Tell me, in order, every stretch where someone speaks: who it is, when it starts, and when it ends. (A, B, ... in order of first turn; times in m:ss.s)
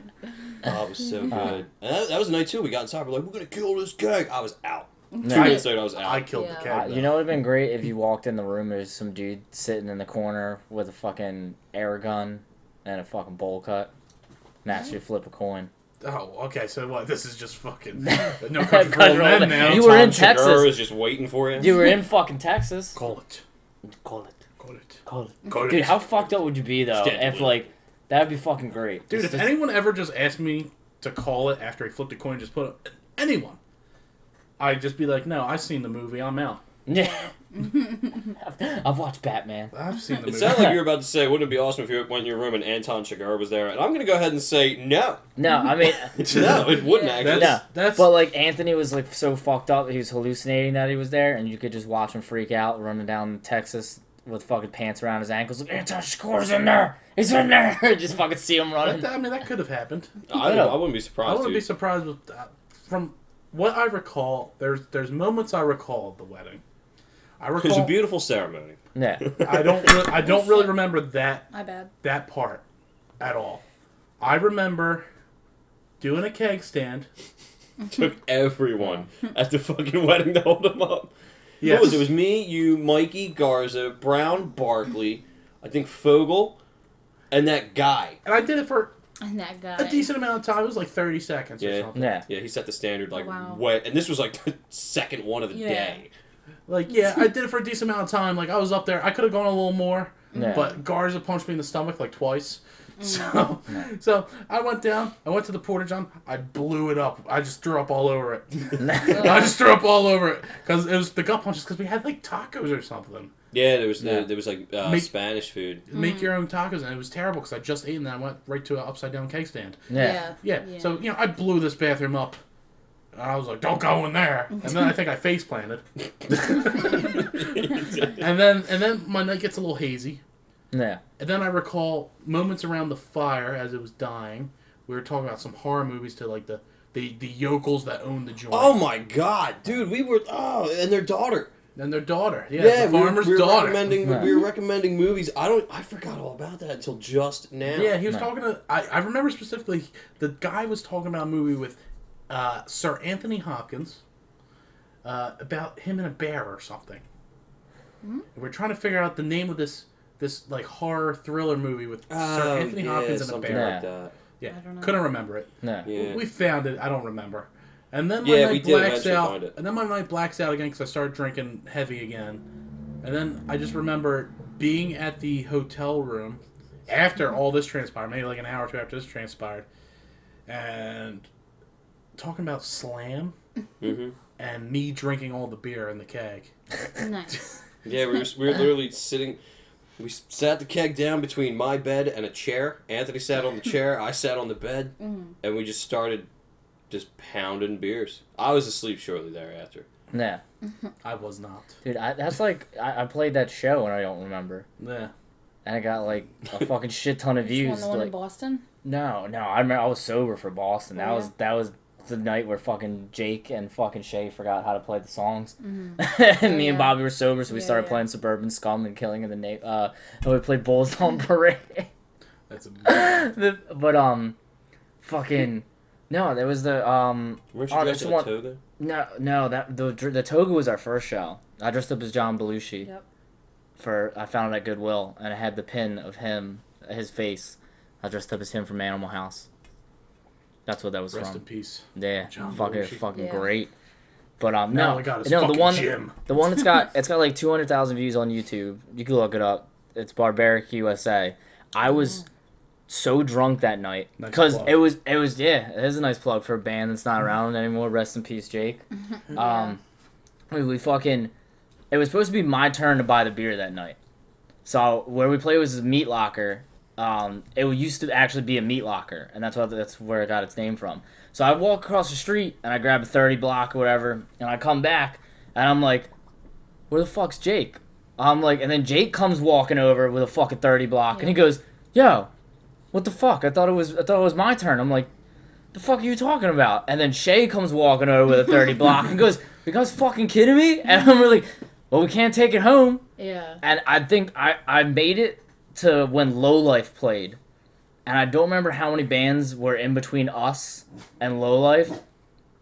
0:00.6-0:06.3 A
0:01.3-0:01.6 B
0:05.1-0:05.7 C
0:05.2-0:05.6 B
0:05.3-0:07.3 D
0:06.3-0:06.7 C
0:06.7-0:13.9 B
0:14.6-0:15.7 B
0:16.0-0:20.0 D
0:18.0-0:20.8 B
0:19.5-0:21.9 A
0:21.6-0:23.0 B
0:22.9-0:23.4 D
0:24.0-0:24.3 B
0:24.6-0:26.2 D
0:25.0-0:29.5 B
0:26.9-0:27.7 A
0:29.1-0:33.6 D
0:34.6-0:36.6 D
0:36.9-0:37.3 B
0:37.6-0:38.3 C
0:38.4-0:39.7 B
0:39.7-0:40.8 D
0:40.2-0:45.2 A
0:40.5-0:40.8 B
0:45.4-0:46.2 B
0:46.2-0:48.1 D
0:46.2-0:47.6 A
0:46.7-0:47.3 C
0:47.3-0:59.1 B
0:58.8-1:00.1 D
1:00.3-1:01.7 A
1:00.3-1:00.8 B
1:01.2-1:06.6 D
1:07.4-1:08.0 D
1:07.6-1:10.2 A
1:08.9-1:09.2 B
1:09.4-1:11.5 D
1:10.4-1:10.7 C
1:11.5-1:11.9 C
1:12.0-1:12.6 D
1:13.2-1:13.6 D
1:14.2-1:15.0 D
1:16.0-1:17.1 D
1:17.9-1:26.6 A
1:21.6-1:22.1 D
1:27.3-1:28.2 A
1:28.2-1:28.9 D
1:29.2-1:30.1 C
1:29.8-1:32.2 D
1:31.6-1:36.1 A
1:31.9-1:32.2 B
1:33.1-1:33.6 C
1:35.5-1:36.0 C
1:36.7-1:53.3 D
1:40.3-1:40.7 C
1:40.4-1:40.6 B
1:43.0-1:43.4 C
1:48.8-1:49.2 B
1:49.1-1:49.5 C
1:53.5-1:55.8 A
1:54.0-1:54.2 B
1:54.8-1:55.1 D
1:55.9-1:59.8 D
1:55.9-1:56.3 C
1:59.9-2:00.2 B
1:59.9-2:00.9 C
2:00.4-2:02.4 D
2:03.1-2:07.3 D
2:07.1-2:08.2 A
2:08.2-2:10.2 D
2:10.7-2:11.0 B
2:11.2-2:18.8 D
2:18.5-2:21.5 A
2:21.8-2:24.1 D
2:22.5-2:28.0 A
2:24.0-2:24.3 B
2:27.7-2:31.8 D
2:32.3-2:34.0 D
2:35.0-2:37.0 D
2:38.3-2:43.8 D
2:42.1-2:44.1 A
2:43.5-2:43.8 B
2:44.4-2:52.4 D
2:44.4-2:45.1 C
2:45.6-2:45.9 B
2:45.8-2:46.2 A
2:48.2-2:49.5 A
2:53.0-2:59.6 D
3:00.5-3:01.2 D
3:02.2-3:03.3 D
3:03.8-3:04.2 A
3:04.4-3:06.5 D
3:07.0-3:07.6 C
3:07.8-3:09.4 A
3:10.0-3:16.3 A
3:15.0-3:15.3 C
3:16.9-3:19.8 A
3:20.1-3:20.4 B
3:21.0-3:21.7 D
3:21.8-3:24.7 B
3:24.8-3:25.1 D
3:25.6-3:28.1 B
3:27.4-3:28.6 C
3:28.8-3:41.9 B
3:31.0-3:31.3 C
3:35.6-3:38.0 C
3:42.5-3:43.2 D
3:42.8-3:44.4 B
3:45.0-3:52.9 B
3:47.5-3:48.6 A
3:53.8-3:59.4 B
4:00.6-4:01.4 B
4:01.1-4:03.0 D
4:01.9-4:03.7 B
4:03.1-4:03.5 C
4:04.4-4:12.2 B
4:04.7-4:06.2 D
4:12.9-4:18.8 B
4:14.2-4:14.8 D
4:19.3-4:19.7 C
4:19.3-4:19.8 B
4:20.5-4:21.3 B
4:21.9-4:24.0 B
4:24.6-4:36.1 B
4:36.9-4:42.3 B
4:41.1-4:41.4 C
4:42.9-4:45.1 B
4:45.7-4:53.0 B
4:53.2-4:53.6 C
4:53.6-4:57.4 B
4:58.0-5:02.0 B